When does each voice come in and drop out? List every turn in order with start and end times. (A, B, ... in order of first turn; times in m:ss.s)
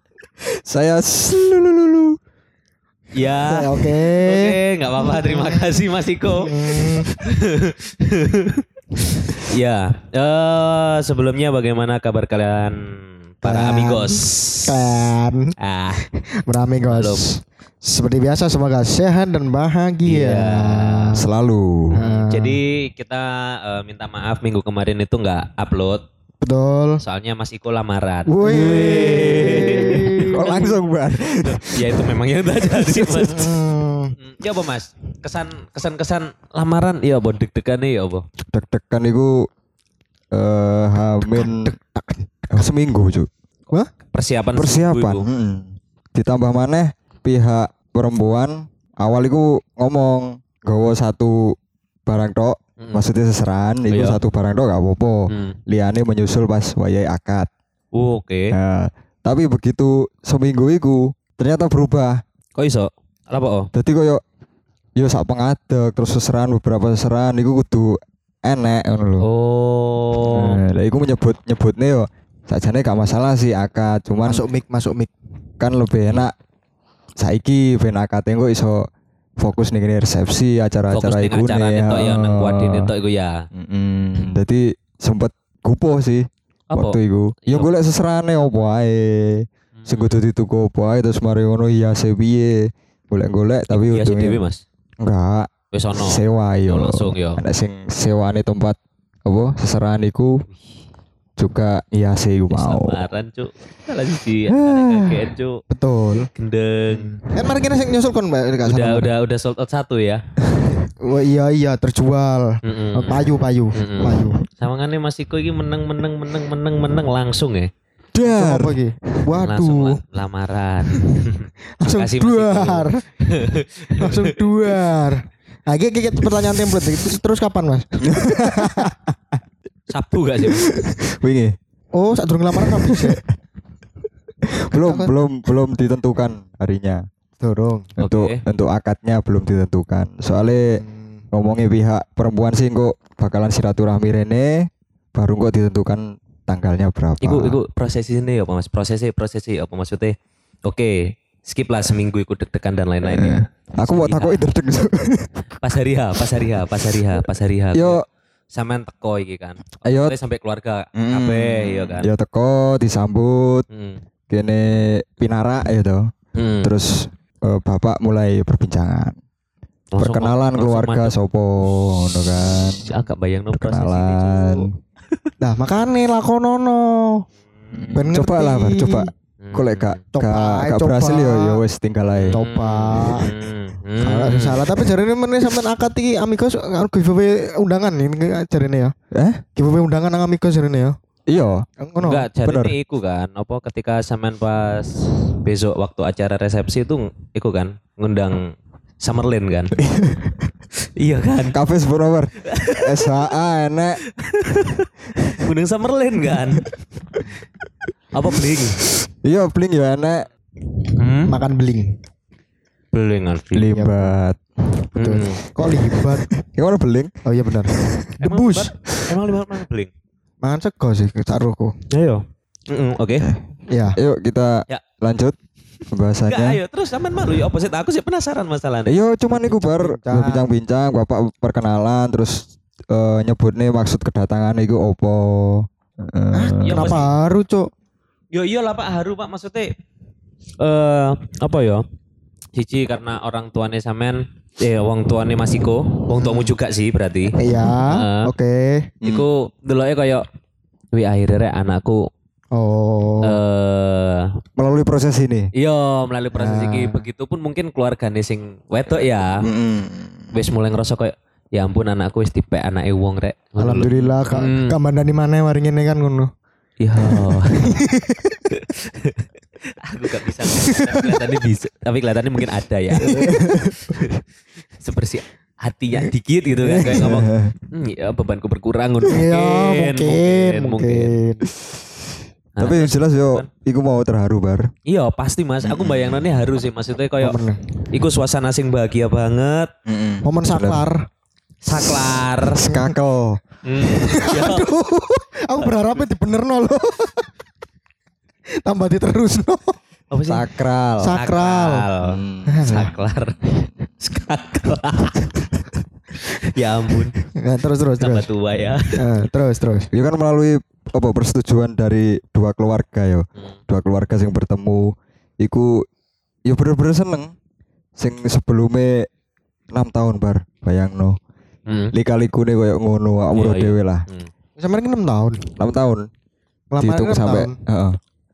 0:00.5-0:02.2 A
0:03.1-0:08.6 B
0:03.4-0:05.7 C
0:06.3-0:07.2 C
0:09.1-0:16.0 B
0:13.4-0:21.2 C
0:16.9-0:17.2 B
0:20.0-0:21.1 B
0:21.1-0:22.0 A
0:21.9-0:22.6 C
0:21.9-0:26.0 B
0:26.4-0:27.0 C
0:27.0-0:30.7 B
0:28.3-0:30.6 C
0:28.5-0:32.0 A
0:31.3-0:33.6 B
0:33.1-0:34.2 C
0:34.2-0:38.2 B
0:38.5-0:39.5 A
0:40.3-0:41.7 A
0:41.3-0:42.5 C
0:42.5-0:43.3 A
0:44.1-0:45.2 B
0:44.5-0:51.5 A
0:52.0-0:57.5 A
0:53.9-0:54.2 B
0:55.3-0:55.6 B
0:57.9-0:58.5 B
0:58.5-1:02.2 A
1:02.6-1:03.7 B
1:03.7-1:04.2 A
1:05.0-1:09.2 A
1:09.2-1:10.6 B
1:10.3-1:14.4 A
1:14.2-1:15.1 C
1:15.6-1:16.3 A
1:17.2-1:18.8 A
1:19.4-1:22.9 A
1:20.9-1:23.4 B
1:23.5-1:34.4 A
1:26.7-1:27.7 B
1:29.8-1:30.2 B
1:33.7-1:34.6 B
1:35.0-1:40.4 A
1:35.7-1:37.4 B
1:41.4-1:43.0 A
1:42.5-1:45.6 B
1:44.5-1:45.1 A
1:45.7-1:46.3 C
1:46.3-1:47.2 B
1:46.9-1:49.1 C
1:48.6-1:50.2 B
1:51.0-1:54.4 C
1:52.6-1:57.7 B
1:58.1-1:58.8 A
1:58.2-2:00.0 C
1:59.4-2:04.4 B
2:01.8-2:03.0 C
2:04.0-2:09.0 C
2:08.0-2:08.9 A
2:09.9-2:10.7 B
2:10.4-2:11.5 A
2:11.9-2:13.2 C
2:12.6-2:13.2 A
2:14.4-2:17.0 A
2:14.7-2:15.1 C
2:17.4-2:17.9 C
2:18.0-2:27.6 A
2:18.0-2:18.4 B
2:20.7-2:21.2 C
2:27.2-2:34.4 B
2:33.0-2:35.4 A
2:35.6-2:42.1 B
2:37.7-2:38.0 A
2:39.8-2:40.2 A
2:40.9-2:43.6 A
2:43.7-2:44.0 B
2:44.3-2:46.0 A
2:46.4-2:46.7 B
2:46.6-2:49.2 A
2:49.9-2:51.1 B
2:50.0-2:52.8 A
2:52.4-2:54.7 B
2:53.5-2:54.7 A
2:55.4-2:57.2 C
2:57.6-2:58.0 B
2:57.7-3:02.4 A
2:57.9-2:59.1 C
2:59.4-3:00.0 B
3:00.1-3:01.6 C
3:02.1-3:04.6 B
3:02.3-3:03.3 C
3:04.0-3:08.9 C
3:09.1-3:09.4 A
3:09.6-3:11.0 C
3:11.3-3:11.6 A
3:11.8-3:12.3 C
3:12.0-3:19.8 B
3:12.4-3:12.7 A
3:19.8-3:20.5 A
3:21.0-3:21.6 B
3:21.5-3:24.0 A
3:22.4-3:23.1 B
3:24.1-3:26.7 B
3:28.1-3:28.8 B
3:29.0-3:30.3 A
3:31.0-3:31.4 B
3:31.2-3:32.0 C
3:32.9-3:33.7 B
3:33.5-3:34.9 A
3:33.7-3:34.1 C
3:35.0-3:35.4 B
3:35.0-3:36.3 C
3:36.0-3:37.1 A
3:37.2-3:38.7 C
3:37.7-3:38.1 A
3:38.2-3:39.9 B
3:40.4-3:41.8 C
3:41.9-3:43.3 B
3:43.7-3:44.0 C
3:43.9-3:45.4 A
3:45.9-3:46.6 A
3:46.3-3:49.0 B
3:48.8-3:57.0 A
3:49.4-3:50.5 C
3:56.3-3:57.7 C
3:56.6-3:57.1 B
3:58.3-3:59.7 B
4:00.6-4:01.8 B
4:02.5-4:08.3 B
4:06.1-4:06.5 C
4:07.3-4:08.9 C
4:09.0-4:10.2 B
4:10.9-4:12.1 B
4:12.5-4:13.4 C
4:13.2-4:14.3 B
4:14.6-4:15.5 A
4:15.5-4:19.4 B
4:16.3-4:17.0 C
4:19.4-4:20.3 A
4:20.3-4:24.8 B
4:23.6-4:26.3 C
4:26.8-4:27.8 B
4:27.5-4:28.4 C
4:28.5-4:29.3 B
4:29.8-4:34.2 B
4:30.6-4:31.2 C
4:33.0-4:33.6 C
4:33.3-4:33.8 A
4:34.8-4:41.1 B
4:36.6-4:37.2 C
4:36.9-4:37.5 A
4:39.0-4:41.4 C
4:42.6-4:43.5 B
4:42.6-4:44.7 A
4:44.8-4:47.4 B
4:45.6-4:46.2 A
4:47.2-4:47.6 C
4:47.9-4:49.7 B
4:49.8-4:50.8 A
4:50.2-4:51.0 C
4:51.6-4:52.7 B
4:52.6-4:53.4 A
4:52.6-4:53.0 C
4:53.6-4:54.7 B
4:53.9-4:57.3 C
4:55.6-4:56.0 B
4:58.6-4:59.8 C
5:00.1-5:00.4 B
5:00.3-5:01.2 A
5:01.0-5:01.8 C
5:01.1-5:05.3 B
5:02.0-5:02.6 A
5:02.5-5:02.9 C
5:06.2-5:07.2 B
5:07.3-5:08.3 C
5:08.0-5:09.0 B
5:08.9-5:09.9 C
5:09.9-5:15.8 A
5:16.4-5:17.3 A
5:18.0-5:19.1 A
5:19.7-5:21.2 A
5:21.7-5:21.9 B
5:21.9-5:24.0 A
5:23.3-5:24.3 B
5:24.6-5:25.5 C
5:25.6-5:26.1 A
5:26.7-5:27.5 C
5:26.8-5:28.0 A